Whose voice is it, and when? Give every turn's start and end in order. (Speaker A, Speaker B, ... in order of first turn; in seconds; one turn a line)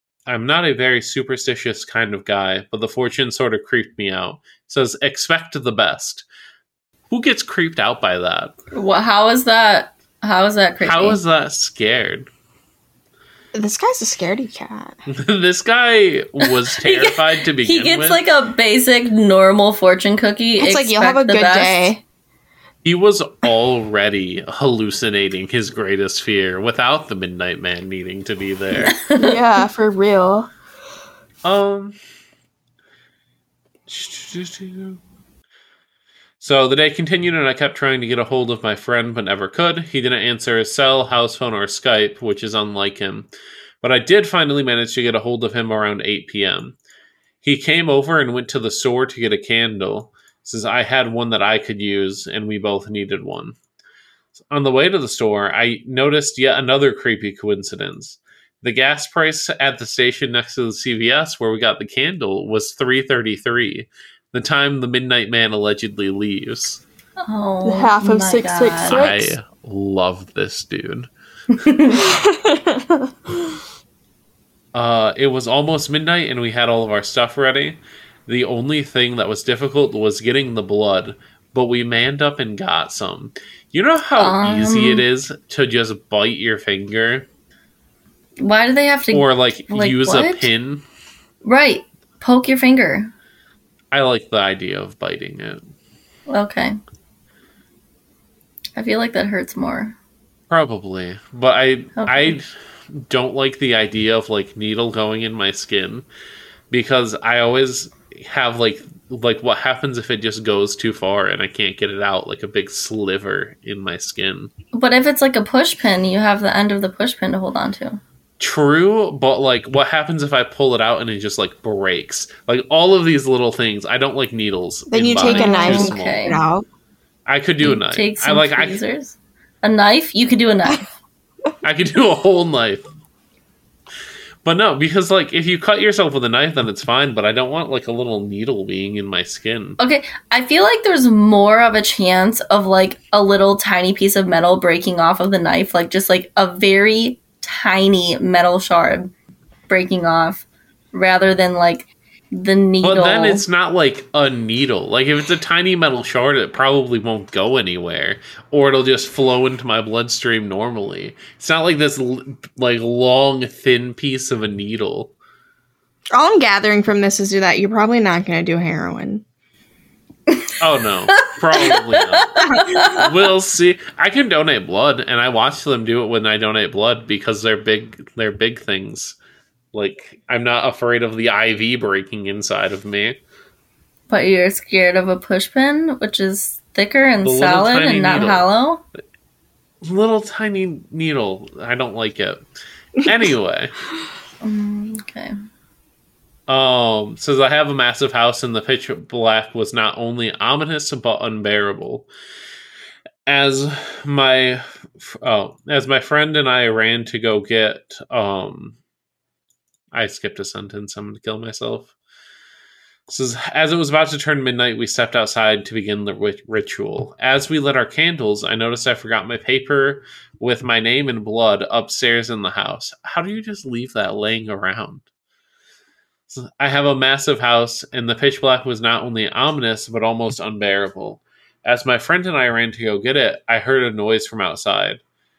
Speaker A: 0.3-6.2
Speaker A: 7.1-8.5
Speaker B: 8.7-11.2
Speaker A: 10.8-12.3
Speaker C: 13.5-15.0
Speaker A: 15.1-18.2
Speaker B: 16.4-21.9
Speaker C: 20.6-22.0
Speaker A: 22.8-29.0
Speaker B: 28.8-29.4
Speaker C: 29.1-30.5
Speaker A: 31.4-32.0
Speaker A: 33.9-35.0
Speaker A: 36.4-43.3
Speaker A: 43.8-46.8
Speaker A: 47.4-53.5
Speaker A: 54.5-66.8
Speaker B: 67.2-69.0
Speaker C: 67.6-69.3
Speaker A: 68.8-71.1
Speaker B: 71.6-72.0
Speaker C: 72.0-73.1
Speaker A: 74.7-87.3
Speaker B: 84.2-85.0
Speaker B: 88.4-90.5
Speaker A: 89.1-90.8
Speaker B: 91.4-93.1
Speaker A: 93.9-95.6
Speaker B: 96.3-96.8
Speaker B: 98.8-100.0
Speaker A: 100.5-106.0
Speaker B: 102.0-102.4
Speaker A: 106.7-114.5
Speaker B: 114.7-118.0
Speaker A: 118.4-126.3
Speaker C: 124.9-126.7
Speaker B: 125.2-126.4
Speaker A: 127.2-128.8
Speaker B: 127.6-130.9
Speaker A: 131.6-132.8
Speaker A: 134.4-139.8
Speaker B: 139.8-149.1
Speaker B: 149.7-153.4
Speaker A: 152.8-165.1
Speaker C: 166.1-169.2
Speaker A: 170.6-179.2
Speaker B: 171.2-173.1
Speaker A: 179.7-183.2
Speaker B: 184.1-188.8
Speaker A: 187.2-188.5
Speaker A: 189.8-192.4
Speaker A: 193.0-193.7
Speaker B: 194.4-195.3
Speaker A: 196.5-202.1
Speaker A: 203.2-208.8
Speaker A: 209.9-211.9
Speaker A: 213.1-225.0
Speaker A: 226.3-235.0